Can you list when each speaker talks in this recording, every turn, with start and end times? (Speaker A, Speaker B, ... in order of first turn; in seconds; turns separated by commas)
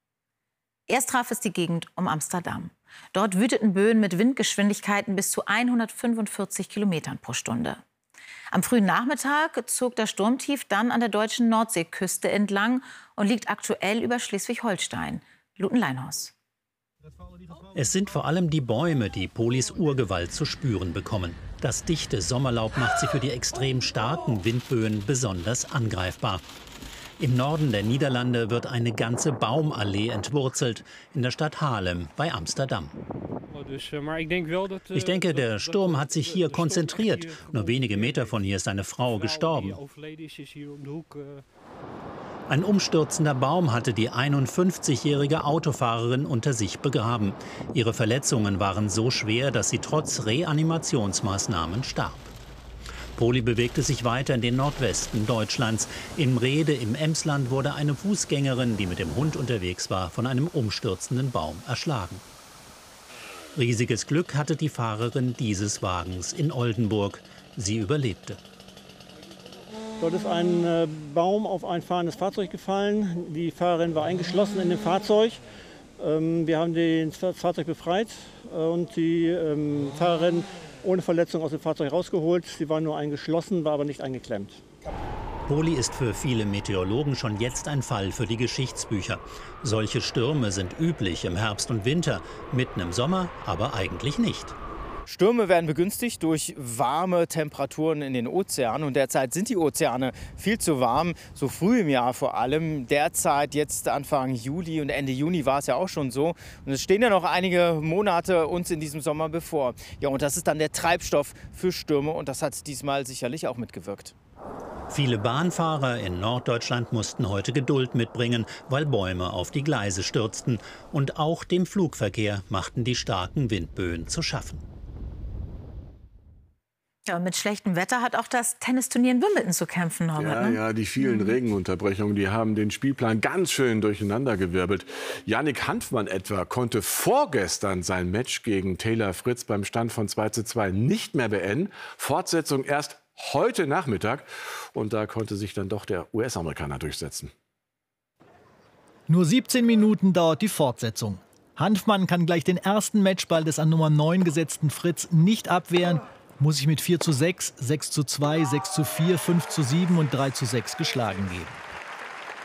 Speaker A: 0.9-7.8, Speaker A: 8.5-16.3, Speaker B: 17.7-26.4, Speaker B: 27.2-32.9, Speaker B: 34.9-39.8, Speaker B: 42.5-52.3, Speaker B: 53.1-62.2, Speaker B: 63.5-68.4, Speaker C: 70.0-75.4, Speaker C: 76.0-84.6, Speaker B: 85.5-94.5, Speaker D: 95.1-114.1, Speaker B: 114.9-124.6, Speaker A: 127.0-131.3, Speaker E: 130.2-147.3, Speaker F: 149.1-161.6